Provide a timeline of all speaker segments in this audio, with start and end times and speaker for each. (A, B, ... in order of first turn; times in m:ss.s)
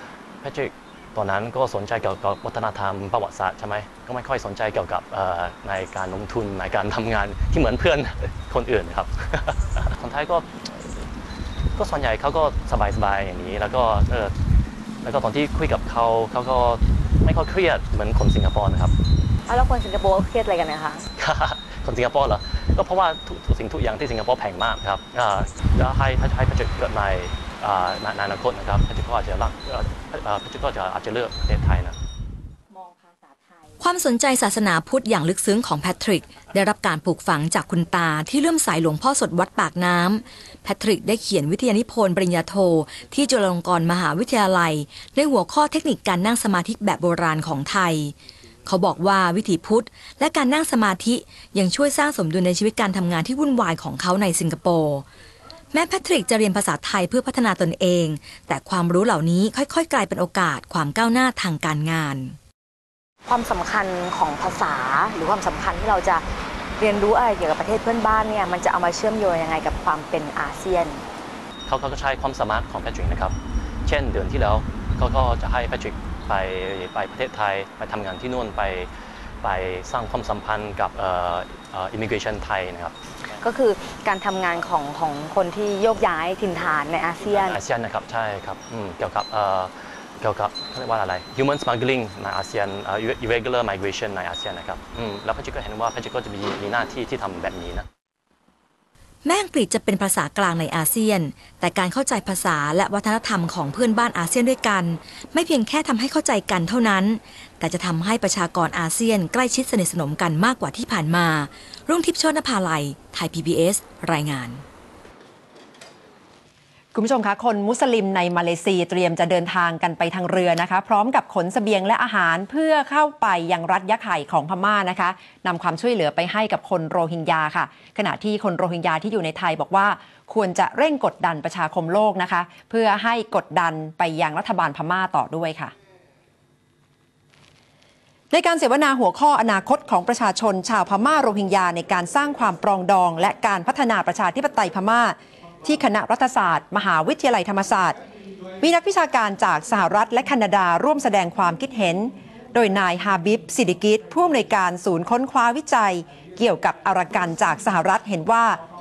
0:00.4-0:11.1 A
0:11.7-0:14.4 A
0:15.0-0:18.9 A
0:19.4-0:21.0 B
0:21.2-0:32.0 A
0:32.7-0:33.6 B
0:33.8-0:48.1 C
0:48.6-0:55.0 C
0:55.7-1:02.4 C
1:03.2-1:11.0 B
1:11.7-1:23.0 A
1:23.4-1:27.6 B
1:27.2-1:37.9 A
1:39.2-1:54.6 C
1:56.9-2:15.7 D
2:18.3-2:28.0 D
2:28.6-2:38.6 D